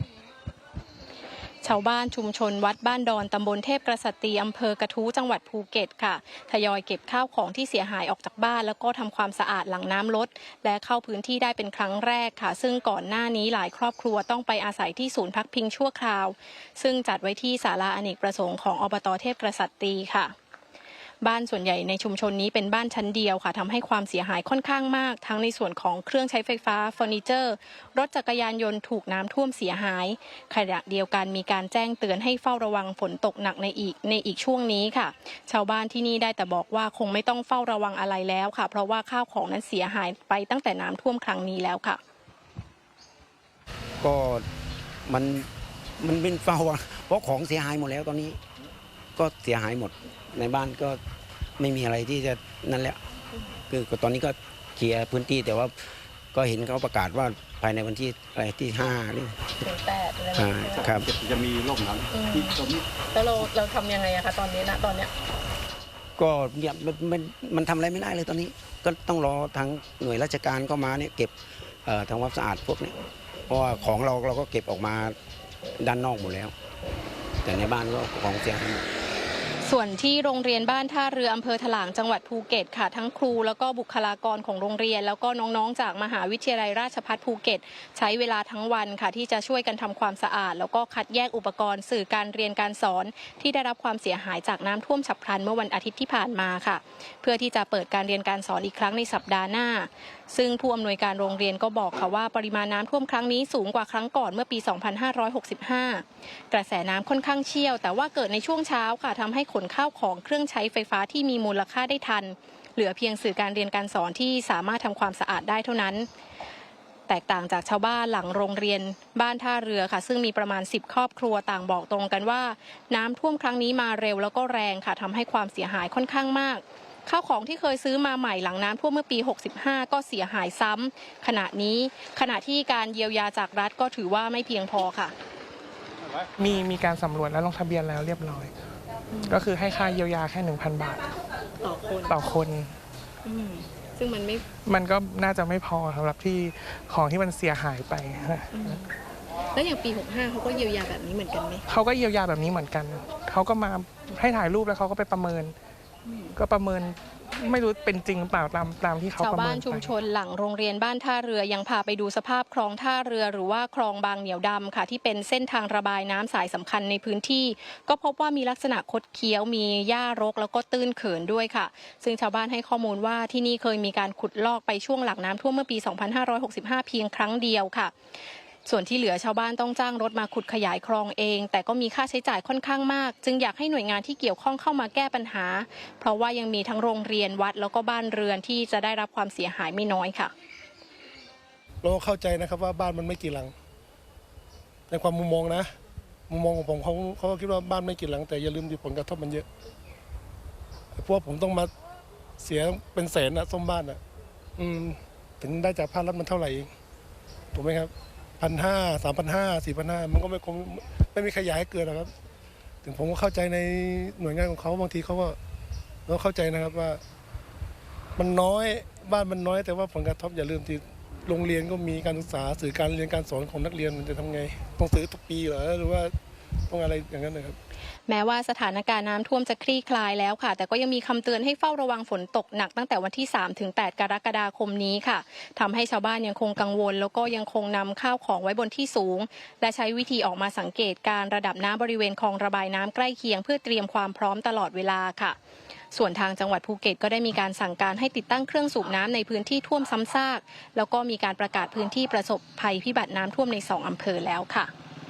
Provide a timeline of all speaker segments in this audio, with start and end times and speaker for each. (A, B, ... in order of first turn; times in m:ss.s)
0:01.6-0:20.3 A
0:21.2-0:42.0 A
0:44.0-0:44.5 B
0:45.1-0:45.5 B
0:46.0-0:48.4 B
0:49.2-0:51.0 B
0:51.6-0:53.0 B
0:53.7-0:59.6 B
0:59.6-1:01.0 A
1:00.4-1:01.1 B
1:00.8-1:02.8 C
1:02.1-1:05.1 A
1:06.2-1:11.3 B
1:11.8-1:15.2 B
1:13.5-1:13.9 A
1:15.8-1:16.5 B
1:17.4-1:18.9 B
1:19.6-1:56.1 A
1:57.1-2:15.1 A
2:16.4-2:18.5 D
2:19.1-2:19.4 A
2:19.3-2:21.1 D
2:21.6-2:22.2 A
2:22.1-2:22.8 D
2:23.2-2:24.5 A
2:24.6-2:28.8 D
2:28.5-2:29.0 A
2:29.5-2:31.6 A
2:31.7-2:35.6 D
2:36.0-2:36.4 A
2:36.4-2:39.9 D
2:39.2-2:57.9 A
2:58.6-3:10.3 A
3:11.8-3:13.5 E
3:14.9-3:15.7 E
3:16.3-3:19.5 E
3:20.9-3:21.7 E
3:22.4-3:24.0 E
3:24.6-3:26.7 E
3:27.5-3:32.1 E
3:32.8-3:35.4 E
3:36.1-3:37.0 E
3:38.2-3:46.1 E
3:46.7-3:47.6 E
3:48.1-4:05.4 A
4:05.9-4:14.7 A